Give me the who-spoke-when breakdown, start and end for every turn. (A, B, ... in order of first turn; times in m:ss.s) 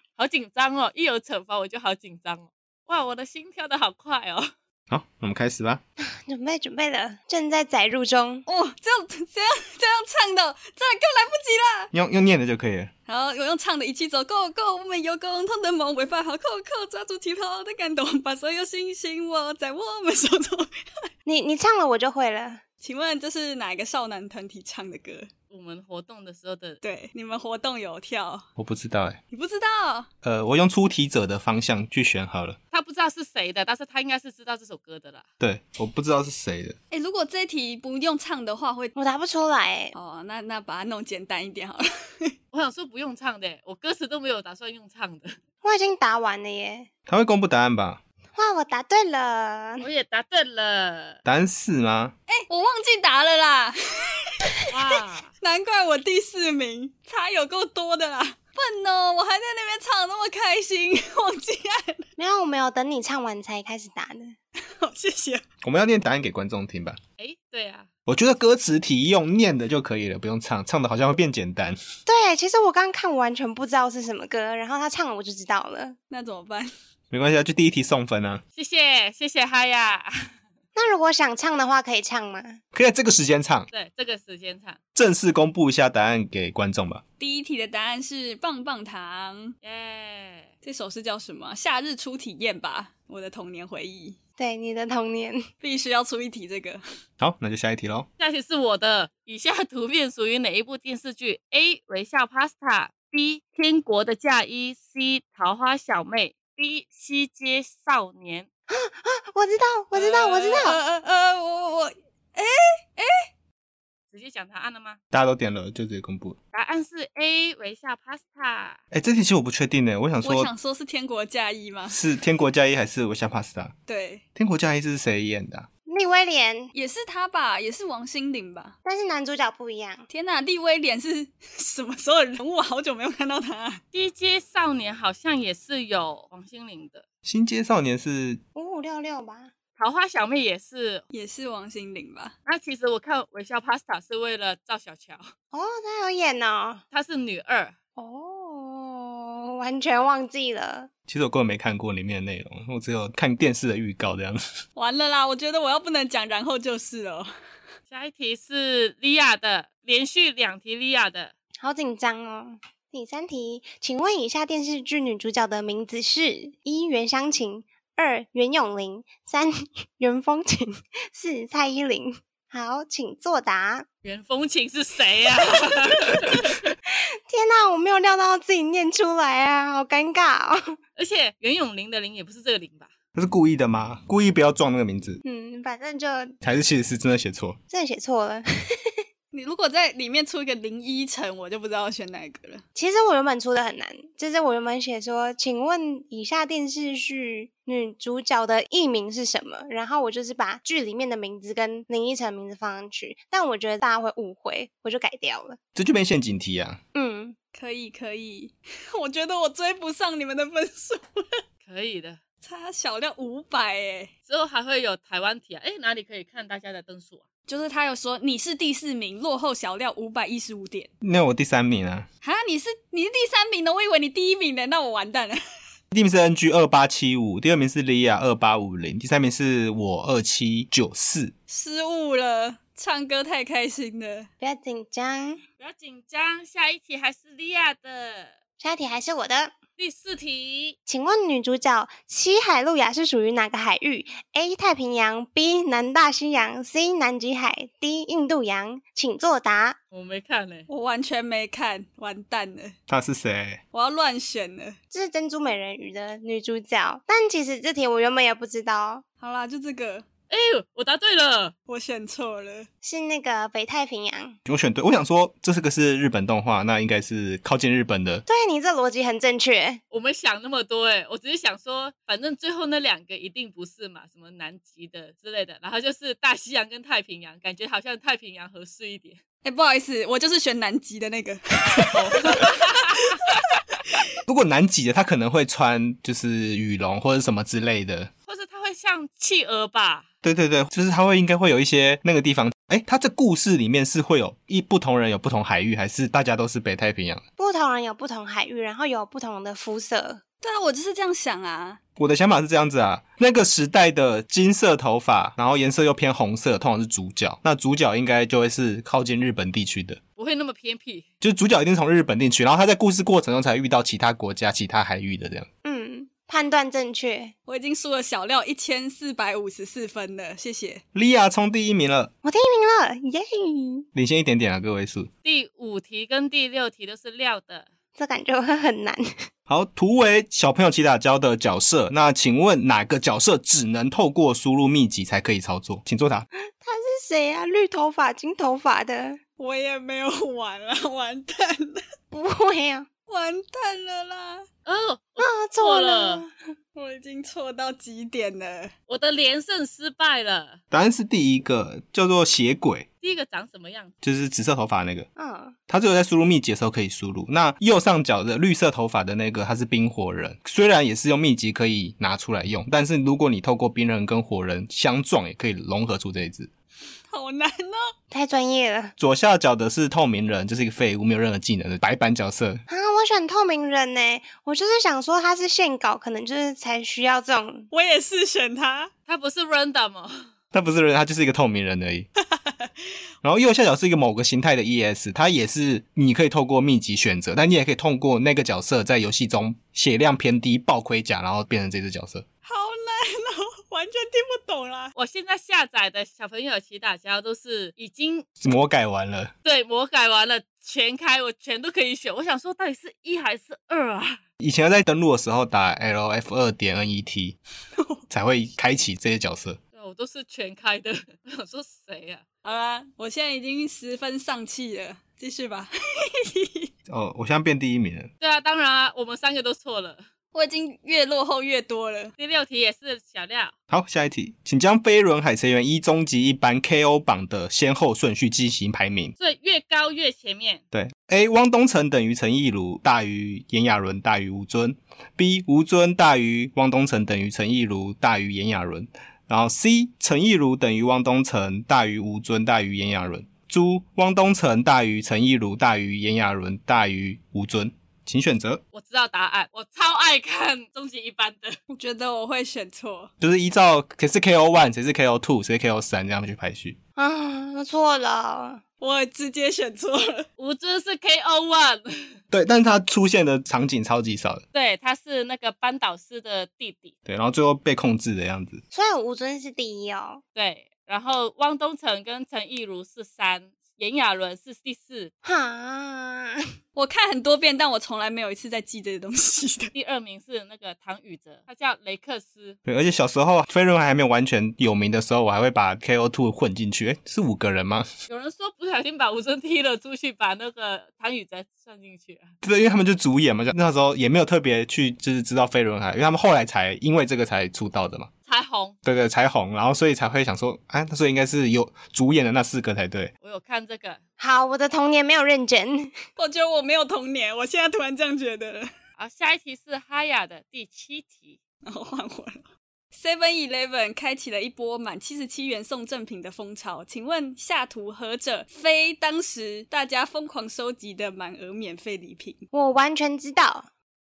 0:00.2-0:04.5 A
0:04.9-0:05.8 B
0:06.0-0:08.4 C
0:08.5-0:11.9 D
0:11.9-0:12.9 B
0:13.1-0:20.7 D
0:21.2-0:22.6 C
0:22.8-0:25.3 D
0:25.5-0:26.8 A
0:26.8-0:28.4 D
0:28.6-0:29.2 B
0:29.3-0:30.1 D
0:30.2-0:32.6 B
0:32.7-0:35.2 A
0:35.4-0:36.8 B
0:36.9-0:38.9 D
0:39.0-0:39.9 C
0:39.9-0:42.3 D
0:42.5-0:45.4 A
0:45.6-0:46.9 C
0:47.1-0:48.0 B
0:48.4-0:49.8 C
0:49.8-0:51.2 A
0:51.2-0:52.1 B
0:52.3-0:54.6 D
0:54.7-0:55.3 A
0:55.4-1:02.0 D
1:02.2-1:04.3 C
1:04.7-1:05.4 D
1:05.6-1:07.0 B
1:07.2-1:07.9 A
1:08.1-1:11.8 B
1:12.0-1:16.0 C
1:16.1-1:16.7 D
1:17.1-1:18.4 B
1:18.6-1:20.3 A
1:20.7-1:22.6 C
1:22.7-1:23.7 B
1:23.7-1:24.8 A
1:24.9-1:27.0 B
1:27.2-1:29.6 D
1:29.6-1:30.5 A
1:30.6-1:34.2 D
1:34.4-1:35.5 C
1:35.6-1:36.8 D
1:37.2-1:38.1 B
1:38.2-1:48.5 A
1:48.7-1:50.8 C
1:49.9-1:50.6 A
1:50.6-1:53.3 D
1:54.1-1:55.0 A
1:55.1-1:56.4 B
1:56.5-1:58.8 A
1:58.9-2:00.5 B
2:00.2-2:02.0 D
2:01.9-2:03.7 B
2:03.9-2:04.2 D
2:04.4-2:05.7 B
2:05.9-2:06.7 C
2:06.7-2:08.8 D
2:08.8-2:10.1 C
2:10.1-2:13.8 D
2:13.9-2:17.0 A
2:17.2-2:18.4 B
2:18.5-2:19.5 C
2:19.8-2:21.0 A
2:21.1-2:22.3 D
2:22.4-2:25.3 A
2:25.5-2:26.8 C
2:26.9-2:27.7 A
2:28.0-2:30.9 C
2:31.1-2:34.4 B
2:34.8-2:37.3 D
2:37.9-2:41.3 A
2:41.6-2:53.8 C
2:54.0-2:56.7 A
2:56.9-3:00.8 C
3:01.0-3:02.9 A
3:03.1-3:05.2 B
3:05.2-3:06.3 C
3:06.4-3:07.6 B
3:07.7-3:09.0 C
3:09.3-3:12.6 D
3:12.7-3:25.6 C
3:25.7-3:26.8 B
3:26.9-3:27.3 C
3:27.5-3:31.4 D
3:31.6-3:32.2 A
3:32.4-3:34.1 D
3:34.3-3:37.2 A
3:37.5-3:40.9 D
3:41.0-3:42.1 B
3:42.2-3:45.4 D
3:45.9-3:51.3 B
3:51.5-3:54.3 D
3:54.4-3:55.4 C
3:55.6-3:58.3 A
3:58.6-3:59.5 C
3:59.8-4:00.8 A
4:00.9-4:09.8 C
4:09.9-4:10.7 A
4:10.7-4:12.8 D
4:12.9-4:13.6 B
4:13.7-4:14.8 D
4:14.9-4:19.0 C
4:19.2-4:20.0 D
4:20.3-4:21.5 A
4:21.7-4:22.7 D
4:22.8-4:24.4 C
4:24.4-4:28.2 B
4:28.3-4:29.8 C
4:29.9-4:39.2 A
4:39.4-4:42.8 D
4:41.9-4:43.2 A
4:44.2-4:48.1 B
4:48.3-4:50.0 A
4:50.2-4:57.2 B
4:57.4-5:00.2 C
5:00.4-5:01.8 D
5:02.0-5:10.0 B
5:10.2-5:11.1 A
5:11.2-5:15.5 B
5:15.6-5:17.3 C
5:17.5-5:20.8 D
5:20.9-5:22.1 B
5:22.2-5:23.9 C
5:23.9-5:25.1 B
5:25.2-5:27.7 A
5:28.0-5:29.1 C
5:29.5-5:36.3 B
5:36.6-5:39.2 C
5:39.4-5:41.8 D
5:42.1-5:42.9 C
5:43.1-5:44.4 D
5:44.6-5:46.2 A
5:45.2-5:46.3 C
5:46.7-5:48.7 D
5:48.9-5:50.6 A
5:50.7-5:52.8 B
5:53.0-5:53.9 A
5:54.0-5:55.1 B
5:55.2-5:55.6 C
5:55.7-6:06.5 B
6:07.1-6:07.8 D
6:08.1-6:08.9 C
6:09.0-6:12.6 B
6:12.7-6:17.7 C
6:17.7-6:18.9 D
6:19.1-6:20.3 A
6:20.5-6:22.1 B
6:22.3-6:22.7 D
6:23.2-6:32.2 B
6:32.4-6:34.9 D
6:35.0-6:38.2 A
6:38.4-6:39.3 B
6:39.4-6:44.2 A
6:44.4-6:47.4 B
6:47.7-6:48.0 D
6:48.1-6:49.6 B
6:49.7-6:52.2 A
6:52.4-6:56.7 D
6:56.9-6:58.1 B
6:58.2-7:00.0 A
7:00.3-7:02.1 D
7:02.2-7:03.5 A
7:03.7-7:09.1 B
7:09.2-7:10.6 A
7:10.7-7:28.6 B
7:28.7-7:31.6 A
7:31.7-7:33.1 D
7:33.2-7:36.8 B
7:37.0-7:38.6 C
7:38.8-7:40.3 D
7:40.4-7:42.2 A
7:42.3-7:44.4 B
7:44.5-7:46.9 A
7:47.0-7:48.6 B
7:48.7-7:50.2 C
7:50.4-7:55.1 A
7:55.2-7:56.4 C
7:56.7-7:59.7 D
7:59.7-8:02.6 A
8:02.6-8:07.9 B
8:08.1-8:12.3 A
8:12.4-8:18.1 B
8:18.3-8:18.7 A
8:18.8-8:23.1 B
8:23.2-8:24.0 A
8:24.2-8:25.9 C
8:26.2-8:28.7 D
8:29.0-8:31.4 A
8:31.6-8:42.4 D
8:42.5-8:43.7 C